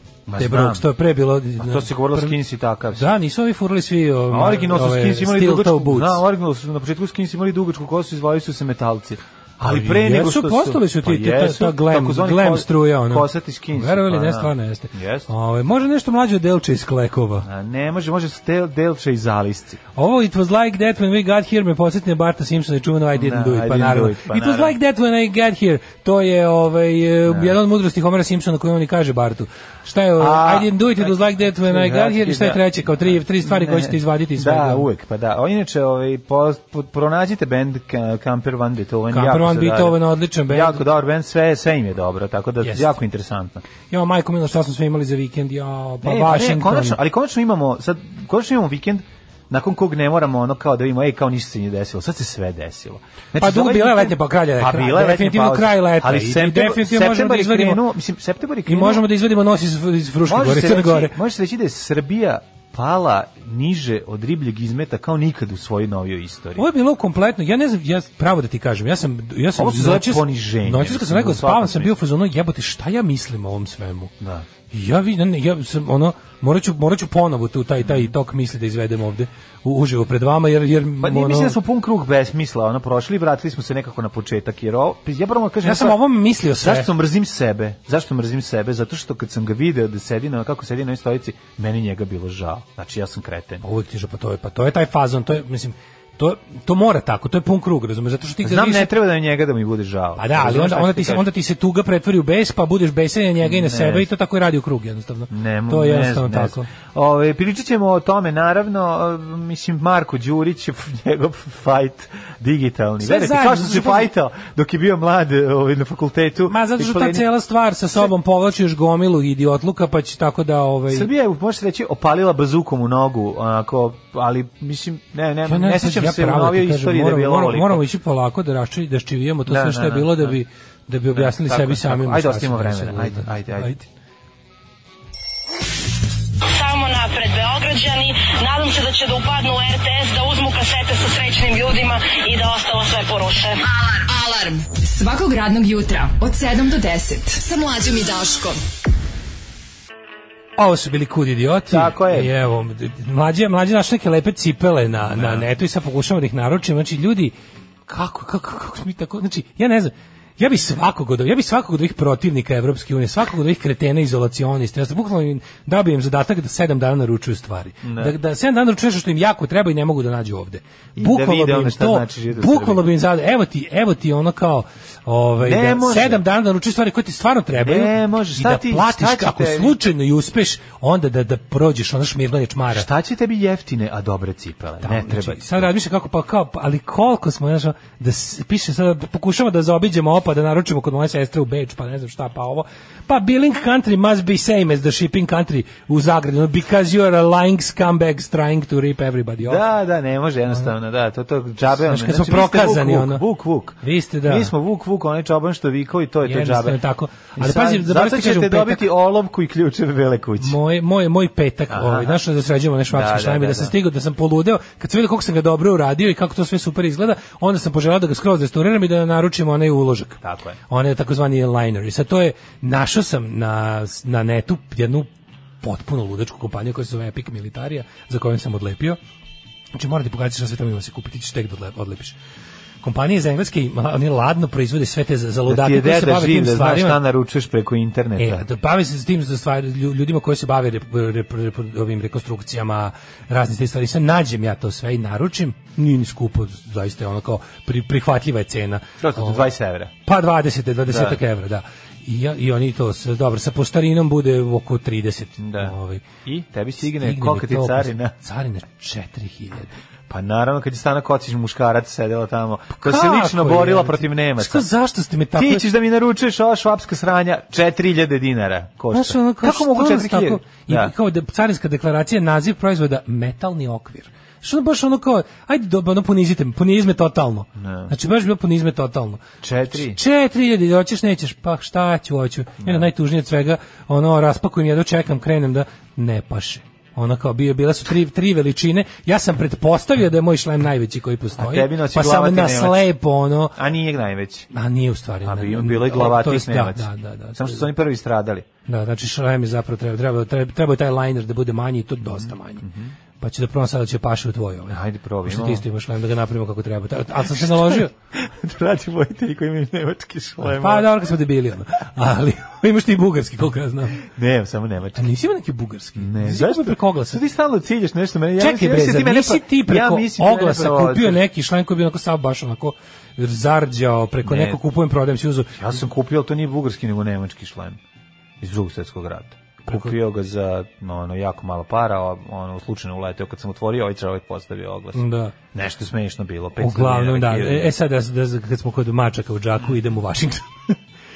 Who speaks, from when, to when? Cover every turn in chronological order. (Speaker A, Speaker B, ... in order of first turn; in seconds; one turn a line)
Speaker A: 0.2-0.9
Speaker B: 0.4-2.4
Speaker A: 1.6-3.1
Speaker B: 3.0-6.2
Speaker A: 4.3-15.3
Speaker B: 9.6-17.4
Speaker A: 17.4-19.8
Speaker B: 19.9-34.9
Speaker A: 23.1-24.8
Speaker A: 27.2-27.6
Speaker A: 30.2-43.6
Speaker B: 39.1-40.8
Speaker B: 42.6-42.9
Speaker B: 43.9-47.0
Speaker A: 46.0-59.0
Speaker B: 53.4-57.8
Speaker B: 58.7-61.1
Speaker A: 60.2-66.7
Speaker B: 66.6-74.1
Speaker A: 69.5-71.9
Speaker A: 74.2-74.5
Speaker B: 74.7-81.6
Speaker A: 81.0-93.6
Speaker B: 85.6-86.9
Speaker B: 93.6-98.9
Speaker A: 98.4-101.3
Speaker B: 100.2-106.7
Speaker A: 103.4-104.1
Speaker A: 105.3-117.3
Speaker B: 113.0-114.1
Speaker B: 116.5-121.1
Speaker A: 120.9-127.8
Speaker B: 125.5-133.8
Speaker A: 129.5-130.3
Speaker A: 131.1-133.8
Speaker C: 136.5-143.6
Speaker D: 143.7-148.6
Speaker B: 150.6-157.3
Speaker A: 151.7-152.3
Speaker A: 155.1-155.4
Speaker B: 157.9-182.9
Speaker A: 167.8-168.2
Speaker A: 170.9-172.8
Speaker A: 175.4-176.2
Speaker A: 177.6-179.8
Speaker A: 182.7-185.7
Speaker B: 184.8-199.6
Speaker A: 199.4-206.8
Speaker B: 201.9-203.2
Speaker B: 203.8-204.5
Speaker B: 206.2-208.8
Speaker A: 207.3-210.6
Speaker B: 210.4-225.1
Speaker A: 211.7-212.2
Speaker A: 212.9-213.7
Speaker A: 220.2-220.6
Speaker B: 225.6-229.0
Speaker B: 229.7-232.2
Speaker B: 232.8-237.0
Speaker A: 235.4-238.4
Speaker B: 238.2-249.4
Speaker A: 249.0-249.9
Speaker B: 250.0-256.0
Speaker A: 250.9-251.2
Speaker A: 255.4-258.1
Speaker B: 256.8-259.7
Speaker A: 260.1-264.7
Speaker B: 262.8-265.6
Speaker A: 265.3-270.9
Speaker B: 268.9-293.6
Speaker A: 277.6-277.9
Speaker A: 279.4-280.0
Speaker A: 282.6-282.9
Speaker A: 291.4-292.9
Speaker A: 293.5-294.5
Speaker B: 294.5-297.7
Speaker A: 295.2-298.5
Speaker B: 298.6-302.6
Speaker A: 302.0-302.9
Speaker B: 303.2-307.9
Speaker A: 304.7-305.6
Speaker A: 307.4-310.9
Speaker B: 310.4-314.0
Speaker A: 314.0-315.1
Speaker B: 315.0-317.2
Speaker A: 316.0-321.2
Speaker B: 318.4-325.7
Speaker A: 324.2-324.6
Speaker A: 325.6-327.8
Speaker A: 328.4-337.7
Speaker B: 329.7-329.9
Speaker B: 334.9-335.3
Speaker B: 336.6-340.8